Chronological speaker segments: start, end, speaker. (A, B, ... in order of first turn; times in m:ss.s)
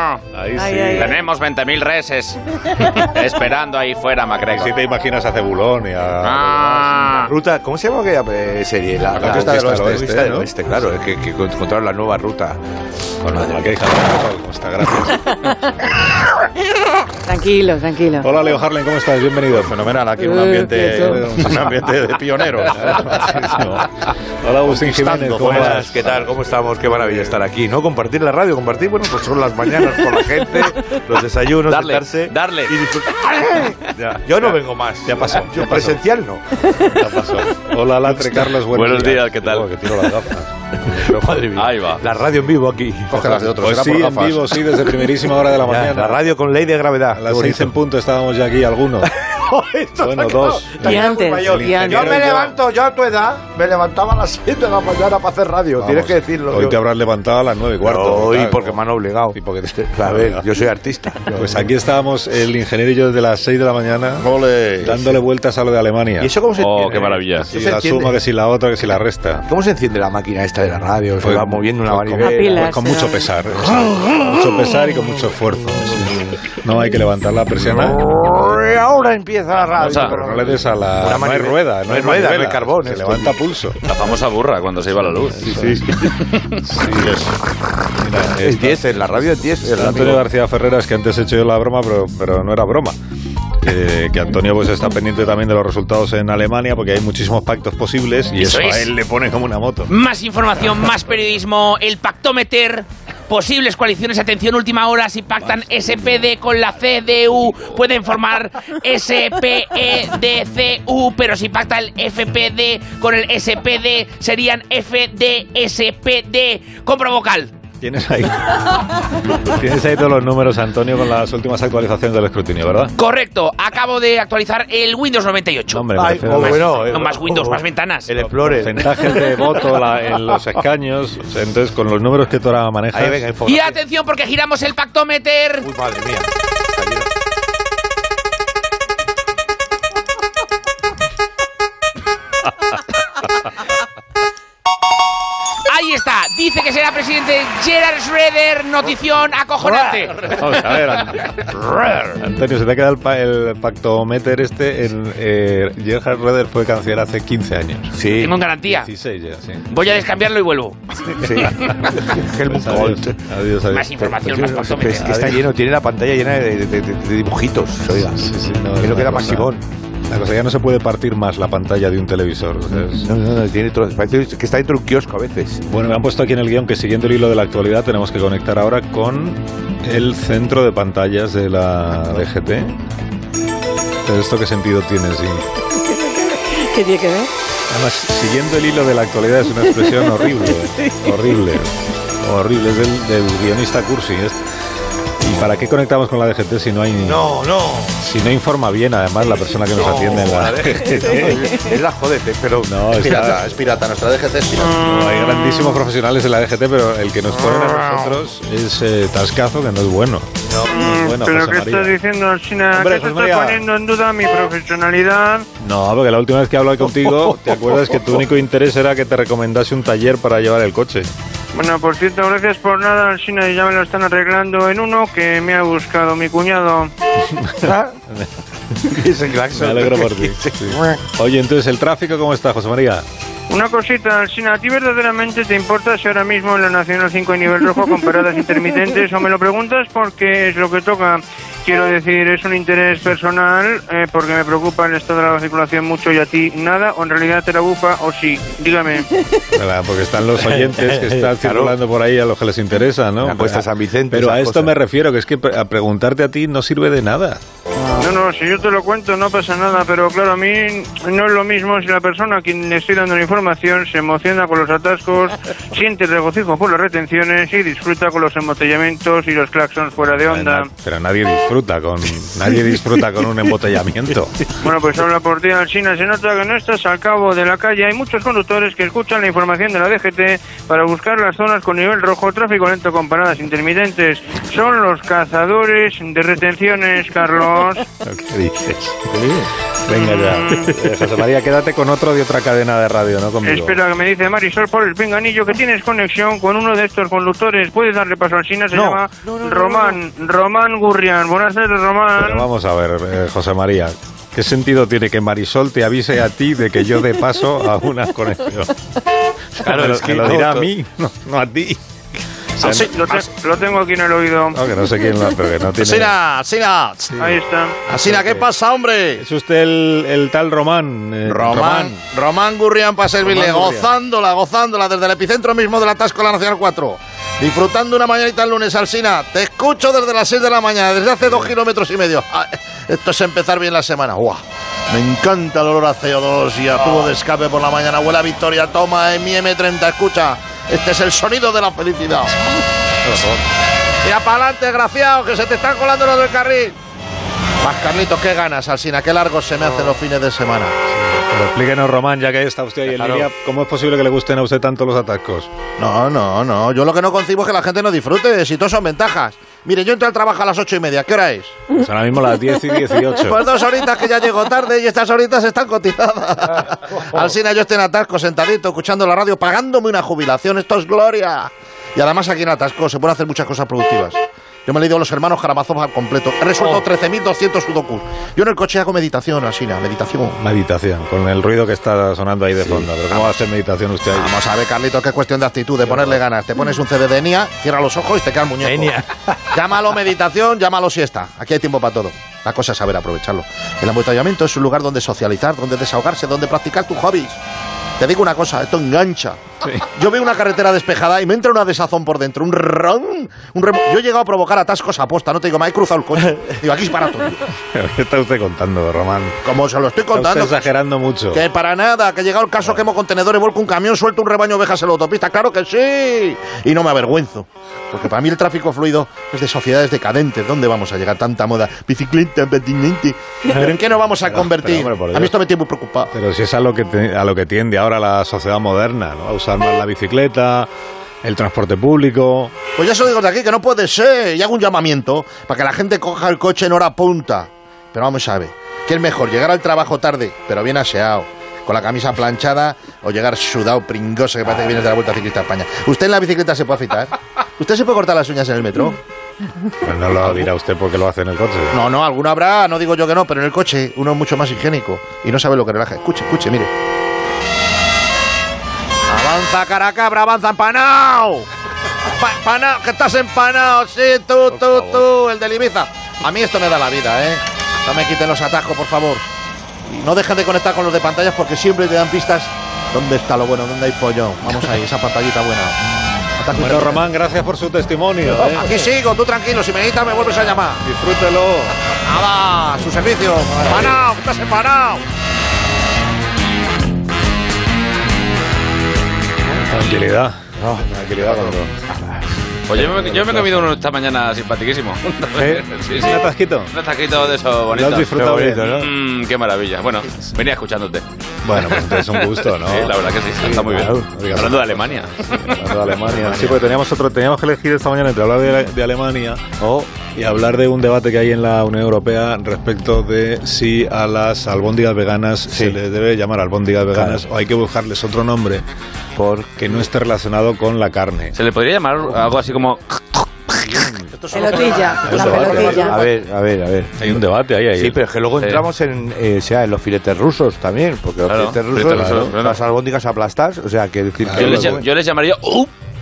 0:00.3-0:01.2 A
0:00.6-0:01.2 B
0:01.0-0:04.8 C
0:04.4-0:07.1 A
0:06.3-0:07.0 C
0:07.1-0:12.6 D
0:09.1-0:10.5 A
0:13.2-0:15.5 A
0:13.3-0:13.7 D
0:17.3-0:18.3 B
0:18.2-0:19.8 A
0:19.5-0:23.6 E
0:20.2-0:21.2 B
0:20.8-0:21.8 A
0:22.7-0:27.4 A
0:24.6-0:25.9 E
0:25.4-0:36.4 D
0:31.7-0:32.8 C
0:35.0-0:36.0 A
0:36.8-0:41.4 A
0:38.6-0:39.7 C
0:40.9-0:43.2 D
0:41.5-0:42.0 C
0:43.1-0:44.5 E
0:43.2-0:46.4 A
0:45.6-0:47.7 D
0:47.1-0:49.1 A
0:49.1-0:56.8 D
0:50.0-0:52.6 A
0:50.8-0:52.3 B
0:55.8-0:58.8 A
0:57.8-1:01.7 D
0:59.3-1:00.5 A
1:01.3-1:04.3 A
1:04.2-1:05.0 E
1:04.8-1:06.3 A
1:06.2-1:08.2 D
1:06.6-1:07.5 C
1:06.8-1:09.5 A
1:09.5-1:12.7 D
1:11.2-1:18.1 A
1:12.2-1:13.2 B
1:13.6-1:14.4 D
1:17.8-1:23.4 D
1:19.8-1:20.1 C
1:19.8-1:23.8 A
1:23.8-1:25.6 C
1:25.3-1:25.9 A
1:25.5-1:25.8 D
1:26.1-1:26.4 C
1:26.6-1:27.3 A
1:27.0-1:27.2 E
1:28.0-1:33.0 A
1:28.4-1:30.2 D
1:33.6-1:39.9 A
1:38.4-1:38.9 F
1:39.9-1:57.5 F
1:57.8-2:02.9 A
2:03.0-2:08.1 F
2:05.7-2:07.2 A
2:05.9-2:09.0 D
2:08.4-2:13.2 A
2:12.9-2:13.8 D
2:13.4-2:15.7 F
2:15.6-2:17.1 D
2:25.7-2:30.5 F
2:30.2-2:31.5 A
2:32.1-2:38.1 A
2:37.9-2:38.4 D
2:38.1-2:38.9 F
2:38.6-2:39.8 A
2:39.7-2:40.8 F
2:41.2-2:43.2 D
2:41.3-2:41.7 F
2:41.4-2:41.9 A
2:42.4-2:44.1 A
2:43.7-2:45.3 F
2:43.9-2:48.2 D
2:45.1-2:45.4 A
2:47.9-2:49.5 A
2:48.8-2:49.6 D
2:50.1-2:53.1 A
2:53.0-2:55.6 D
2:55.7-3:02.8 A
3:04.0-3:05.5 A
3:05.9-3:07.3 B
3:07.7-3:14.4 A
3:10.8-3:11.1 B
3:15.2-3:17.4 A
3:17.0-3:18.0 D
3:18.0-3:21.6 A
3:19.7-3:22.7 D
3:22.6-3:23.5 A
3:23.0-3:24.8 E
3:24.8-3:32.0 A
3:30.5-3:30.8 D
3:30.7-3:35.5 G
3:32.7-3:33.6 A
3:35.6-3:41.1 A
3:41.5-3:46.9 G
3:47.3-3:48.2 A
3:47.6-3:47.9 D
3:48.8-3:51.0 D
3:49.5-3:53.0 A
3:53.5-4:09.1 G
4:09.5-4:17.4 A
4:10.5-4:11.8 D
4:13.2-4:14.8 D
4:18.0-4:30.7 G
4:30.2-4:34.5 A
4:34.6-4:47.9 G
4:48.0-4:49.2 A
4:49.1-4:49.5 D
4:49.9-4:53.8 A
4:49.9-4:50.8 G
4:53.4-5:02.4 G
4:58.7-5:00.0 D
5:02.2-5:08.7 A
5:09.6-5:11.8 A
5:09.6-5:10.7 D
5:12.6-5:12.9 A
5:12.6-5:13.2 E
5:12.7-5:14.6 G
5:14.5-5:16.2 A
5:15.8-5:17.3 E
5:17.2-5:17.8 G
5:17.9-5:19.2 E
5:17.9-5:18.5 A
5:19.2-5:22.0 A
5:21.3-5:42.4 E
5:23.2-5:23.9 A
5:31.2-5:31.5 A
5:44.0-5:46.8 E
5:47.6-5:50.7 E
5:50.9-5:55.5 A
5:55.8-6:01.6 E
6:01.7-6:03.4 A
6:03.2-6:20.4 E
6:20.4-6:24.3 A
6:23.1-6:23.4 E
6:24.1-6:37.4 E
6:28.6-6:29.4 D
6:38.0-6:47.4 E
6:47.7-6:49.5 A
6:49.4-6:50.6 E
6:50.1-6:51.4 A
6:51.3-7:06.1 E
7:03.5-7:05.4 A
7:06.1-7:10.7 A
7:11.2-7:12.5 A
7:12.8-7:29.0 E
7:29.8-7:31.8 A
7:30.2-7:30.5 E
7:31.7-7:36.7 E
7:39.1-7:41.5 E
7:42.1-7:49.3 E
7:49.9-7:55.8 E
7:56.4-7:57.0 E
7:56.5-7:58.8 A
7:58.3-8:00.8 E
8:00.8-8:01.8 A
8:02.0-8:05.0 E
8:03.6-8:04.0 D
8:09.6-8:11.7 A
8:10.6-8:13.6 D
8:12.7-8:18.1 C
8:12.8-8:13.6 A
8:15.4-8:15.6 D
8:15.4-8:16.8 A
8:17.6-8:18.8 A
8:18.0-8:18.9 D
8:18.7-8:21.0 C
8:21.4-8:29.4 A
8:21.6-8:25.6 C
8:23.4-8:24.1 D
8:29.6-8:30.0 D
8:30.1-8:38.6 A
8:35.5-8:35.8 D
8:37.0-8:37.2 D
8:39.2-8:39.7 D
8:39.6-8:41.4 A
8:41.3-8:43.3 C
8:43.6-8:45.9 E
8:44.3-8:46.1 B
8:45.0-8:45.9 A
8:45.1-8:47.1 D
8:47.0-8:48.0 A
8:47.8-8:54.9 D
8:48.4-8:48.7 C
8:51.2-8:52.6 C
8:51.8-8:52.4 A
8:54.2-8:54.8 A
8:54.3-8:55.7 C